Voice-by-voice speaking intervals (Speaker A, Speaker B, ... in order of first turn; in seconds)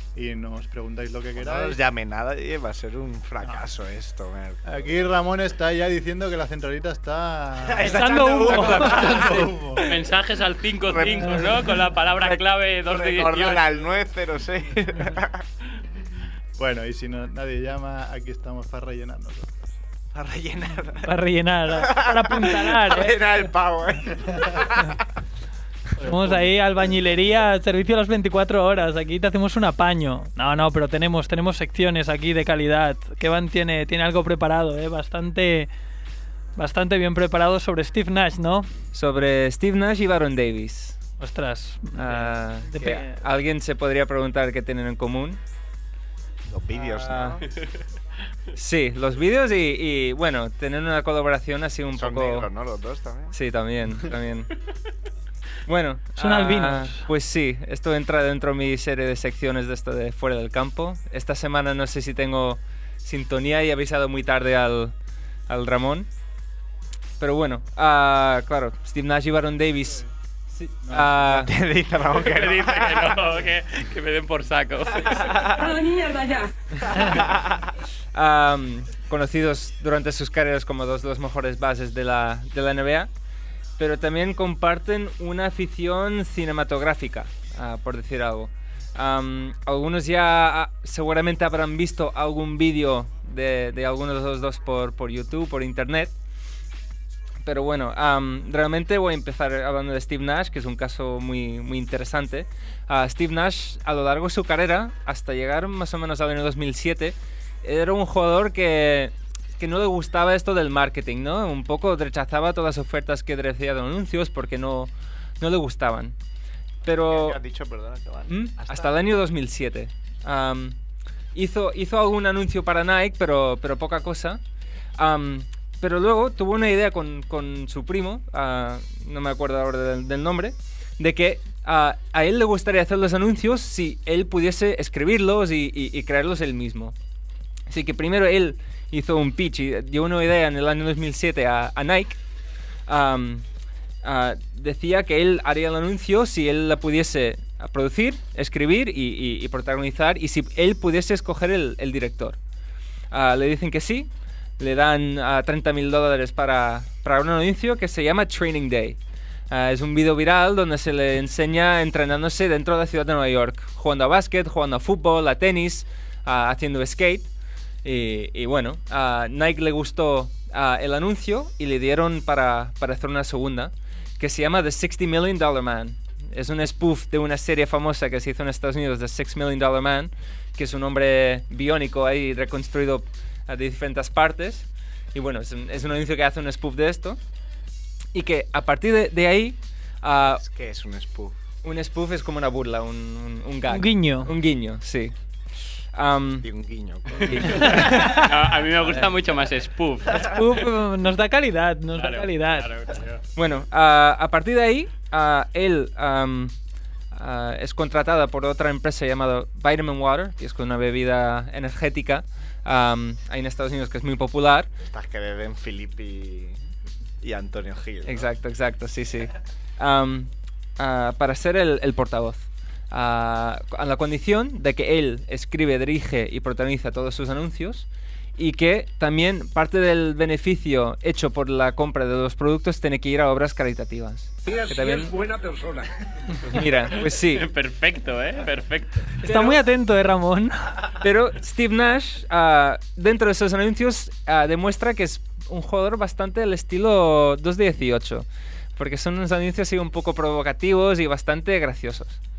Speaker A: 0.1-1.8, 4.7-9.9, 16.6-19.5
Speaker B: 1.4-4.6, 7.6-9.6, 10.9-11.5, 12.2-15.4, 20.1-21.1, 21.7-24.9, 46.5-47.4, 52.0-53.3, 71.0-73.1, 116.8-119.0, 190.2-191.3, 196.4-197.8, 214.9-216.6, 217.2-218.3, 235.2-235.8
Speaker C: 7.8-9.2, 11.2-11.4, 21.0-23.4, 26.0-35.7, 36.6-38.7, 41.2-43.2, 56.2-57.1, 193.7-194.3, 200.1-202.7, 239.2-240.8
Speaker D: 9.8-13.7, 72.1-75.9, 197.7-200.7, 201.9-203.2, 237.3-239.2
Speaker E: 38.9-41.0, 42.0-45.4, 47.0-47.4, 48.5-52.5, 53.3-54.5, 55.7-64.9, 65.5-66.1, 67.2-71.5, 78.1-83.1, 83.8-96.1, 97.4-116.1, 116.8-117.4, 118.3-120.8, 121.3-124.4, 125.0-136.9, 137.7-142.2, 142.9-143.4, 144.0-152.4, 153.1-159.0, 159.5-167.3, 167.8-187.2, 188.1-190.4, 191.6-195.1, 195.9-196.5, 197.2-198.1, 198.8-199.0, 203.4-206.5, 207.1-214.7, 218.0-227.8, 228.4-235.1, 236.5-237.5, 241.0-248.2, 248.8-252.2